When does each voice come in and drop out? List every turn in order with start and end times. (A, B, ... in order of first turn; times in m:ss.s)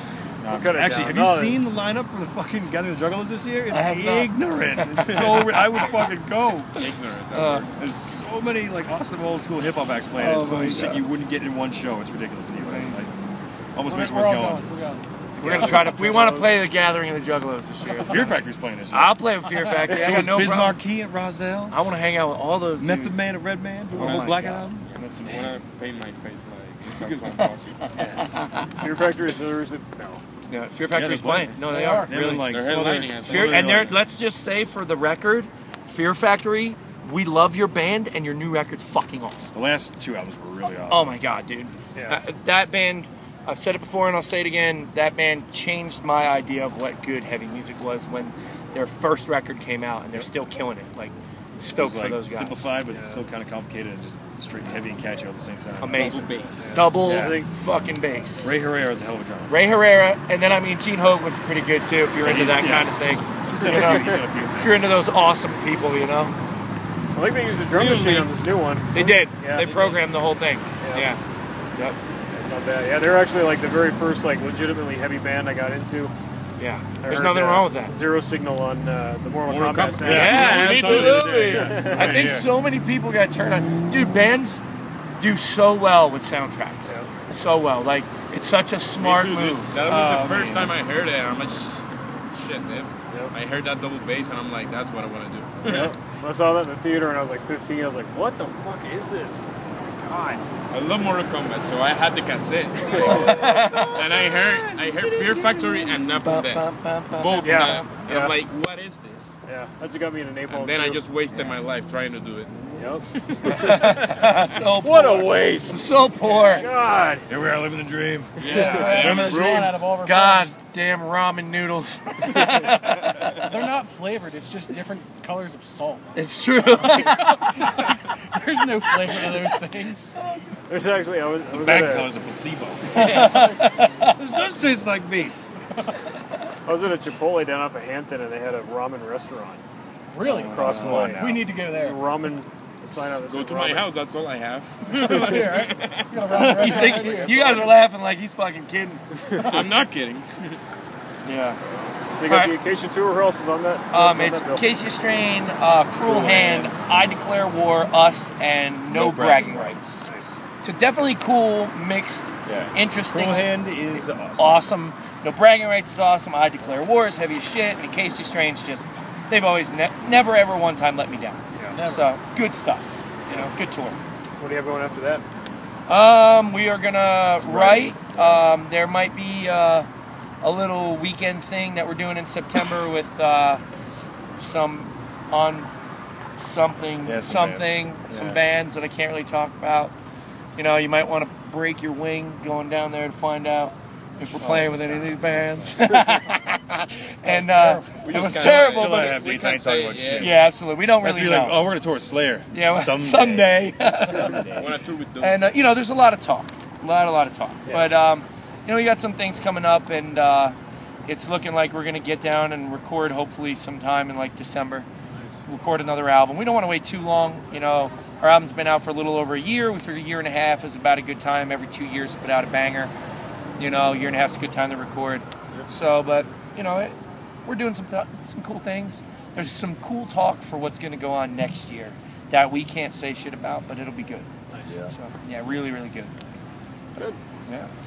0:00.4-0:06.8 A
0:00.5-0:01.6 B
0:03.7-0:05.9 C
0:06.7-0:07.9 D
0:07.3-0:07.7 C
0:07.8-0:13.1 A
0:10.2-0:11.0 C
0:12.6-0:13.0 C
0:13.7-0:14.7 A
0:13.8-0:15.1 E
0:15.4-0:16.6 B
0:15.4-0:18.4 C
0:15.5-0:15.8 A
0:17.9-0:19.2 A
0:18.9-0:20.8 C
0:19.8-0:21.8 A
0:19.9-0:20.2 B
0:21.7-0:23.4 C
0:22.8-0:24.9 A
0:23.9-0:25.6 C
0:25.2-0:27.9 D
0:28.0-0:30.2 B
0:30.5-0:39.5 C
0:30.9-0:34.0 A
0:31.7-0:32.1 E
0:32.3-0:34.0 D
0:39.5-0:41.2 A
0:40.9-0:52.7 C
0:41.9-0:42.2 B
0:51.7-0:57.4 A
0:52.8-0:53.2 B
0:55.8-0:58.6 C
0:55.9-0:56.8 D
0:56.6-0:57.5 B
0:58.4-0:59.6 A
0:59.5-1:06.3 C
1:02.2-1:04.9 A
1:07.1-1:10.0 B
1:07.7-1:08.5 D
1:08.9-1:11.2 C
1:10.8-1:11.1 B
1:12.3-1:16.1 B
1:16.6-1:18.0 C
1:17.0-1:22.3 B
1:19.4-1:22.4 D
1:20.0-1:22.4 A
1:20.1-1:24.6 C
1:25.2-1:29.7 C
1:26.8-1:27.1 B
1:29.0-1:35.9 D
1:29.8-1:30.8 A
1:35.6-1:40.4 B
1:40.7-1:49.4 D
1:42.8-1:43.6 B
1:42.9-1:47.9 C
1:47.4-1:48.4 B
1:49.4-1:51.0 B
1:50.5-1:52.6 D
1:52.7-1:57.3 B
1:53.3-1:53.6 D
1:53.4-1:56.7 C
1:57.3-1:59.3 A
1:58.4-1:59.7 D
1:58.4-2:03.5 C
1:58.5-2:00.5 E
2:03.4-2:06.2 E
2:06.1-2:07.9 C
2:07.3-2:07.7 E
2:08.3-2:10.1 E
2:10.7-2:12.1 B
2:11.5-2:13.6 A
2:12.9-2:14.1 C
2:14.1-2:15.5 A
2:16.6-2:19.6 B
2:20.1-2:22.0 E
2:20.2-2:21.5 A
2:20.2-2:23.9 B
2:20.5-2:21.2 D
2:23.1-2:27.8 D
2:25.0-2:25.4 B
2:25.3-2:27.4 E
2:26.2-2:29.6 C
2:29.4-2:30.6 D
2:31.2-2:31.6 C
2:31.7-2:34.7 B
2:32.3-2:32.6 C
2:33.9-2:40.1 C
2:35.9-2:36.7 A
2:38.9-2:39.8 A
2:40.0-2:40.4 B
2:40.6-2:43.7 C
2:42.4-2:44.6 A
2:44.4-2:54.0 C
2:51.5-2:51.8 B
2:51.7-2:52.1 E
2:54.4-2:55.2 B
2:55.9-2:59.9 C
2:57.4-2:58.5 A
3:00.4-3:03.6 C
3:04.4-3:05.7 C
3:06.4-3:09.9 C
3:07.0-3:08.4 A
3:10.6-3:19.2 C
3:17.2-3:18.0 E
3:18.0-3:20.4 D
3:18.4-3:20.5 A
3:20.1-3:21.6 C
3:21.0-3:24.7 A
3:22.5-3:30.5 C
3:24.5-3:25.7 D
3:27.6-3:27.9 B
3:31.0-3:34.9 C
3:35.2-3:35.4 B
3:35.4-3:42.9 C
3:43.6-3:46.9 C
3:47.4-3:54.3 C
3:54.5-3:54.8 B
3:54.6-3:54.9 A
3:54.9-3:56.1 C
3:57.0-3:57.7 C